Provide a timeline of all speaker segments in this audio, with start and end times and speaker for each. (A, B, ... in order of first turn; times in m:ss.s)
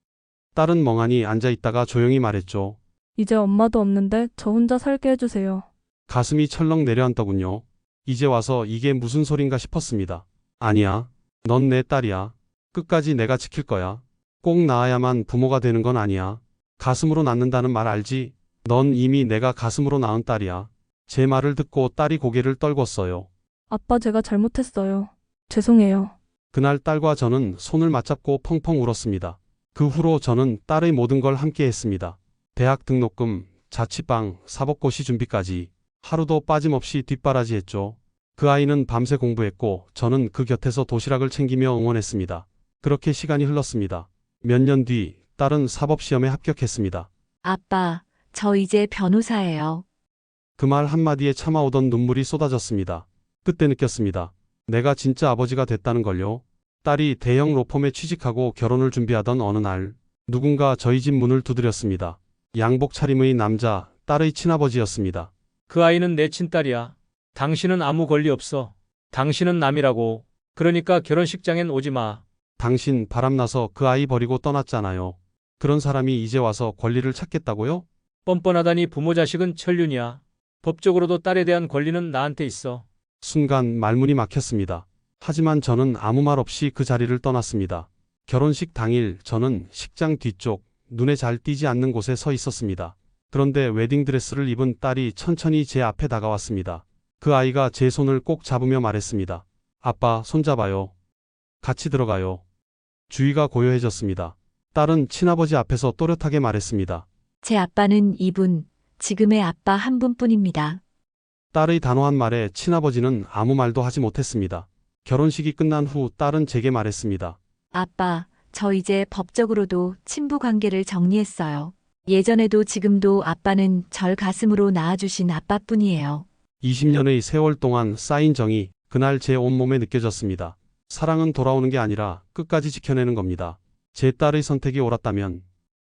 0:00.5-0:02.8 A
0:03.2-0:05.7 B
0:06.1-0:23.3 A
0:23.7-0:26.1 B
0:26.5-0:47.1 A
0:47.4-0:49.8 C
0:50.6-1:05.3 A
1:05.7-1:12.2 D
1:12.6-1:17.8 A
1:18.2-1:22.8 D
1:23.2-1:40.9 A
1:41.6-1:42.4 A
1:43.1-1:47.0 A
1:47.4-1:50.8 C
1:51.5-1:57.4 A
1:57.7-2:06.2 C
2:06.6-2:15.4 A